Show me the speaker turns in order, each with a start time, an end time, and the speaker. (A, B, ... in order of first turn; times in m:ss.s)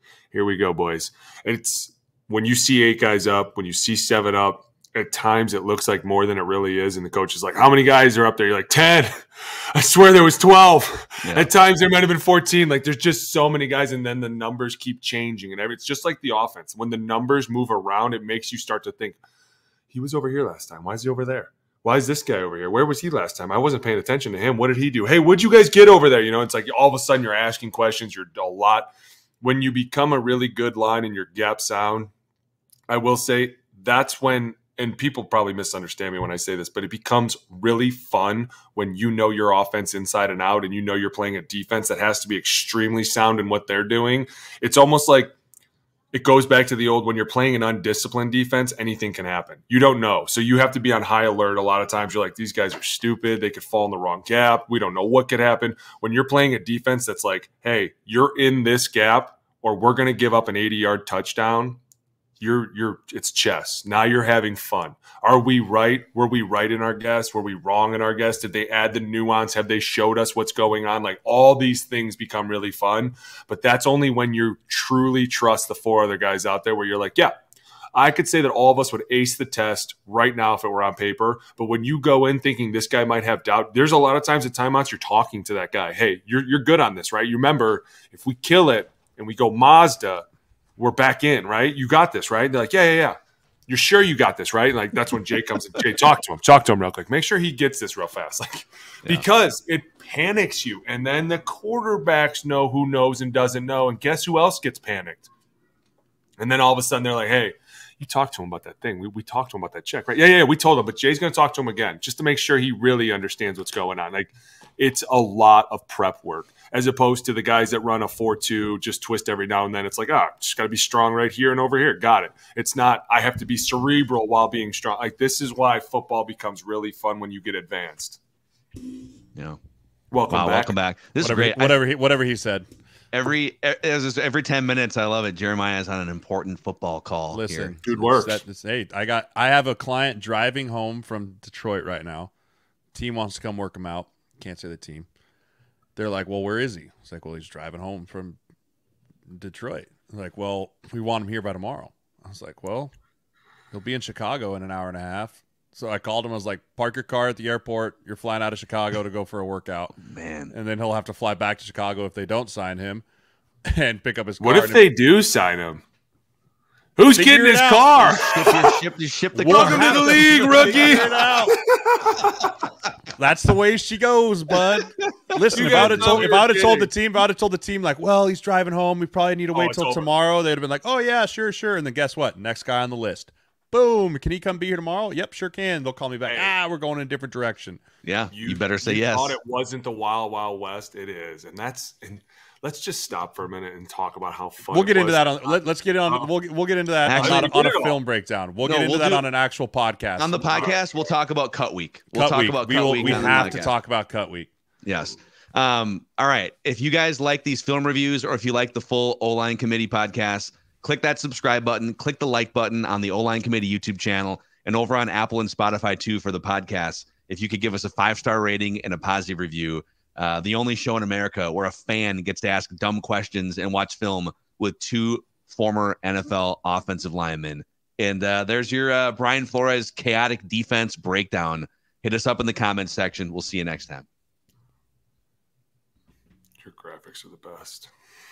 0:00.3-0:19.2 A
0:11.2-0:11.5 B
0:19.9-0:32.1 A
0:32.9-0:45.3 A
0:46.1-1:01.8 A
1:02.4-1:17.3 A
1:17.9-1:30.2 A
1:30.8-1:33.2 A
1:33.7-1:45.3 A
1:46.4-2:08.2 A
2:10.1-2:10.7 A
2:10.3-2:11.8 B
2:11.2-2:12.6 C
2:13.1-2:17.7 B
2:17.3-2:22.3 C
2:17.8-2:18.4 A
2:22.9-2:25.1 C
2:26.0-2:28.4 C
2:29.3-2:32.9 C
2:33.7-2:40.0 C
2:40.0-2:40.5 B
2:40.5-2:43.0 C
2:43.6-2:44.9 C
2:44.4-2:45.8 A
2:47.0-2:48.7 A
2:47.1-2:48.2 C
2:48.0-2:50.5 B
2:49.3-2:51.6 C
2:49.4-2:52.3 A
2:53.1-3:07.8 C
2:55.0-2:56.2 B
2:55.5-2:56.9 A
2:59.5-3:00.0 A
3:06.2-3:06.5 A
3:08.0-3:09.4 B
3:08.3-3:16.3 A
3:14.7-3:20.7 C
3:17.0-3:17.5 B
3:17.2-3:18.0 A
3:18.6-3:19.2 B
3:20.2-3:23.7 B
3:22.1-3:24.5 C
3:23.0-3:23.6 A
3:24.8-3:54.0 B
3:56.6-3:57.9 A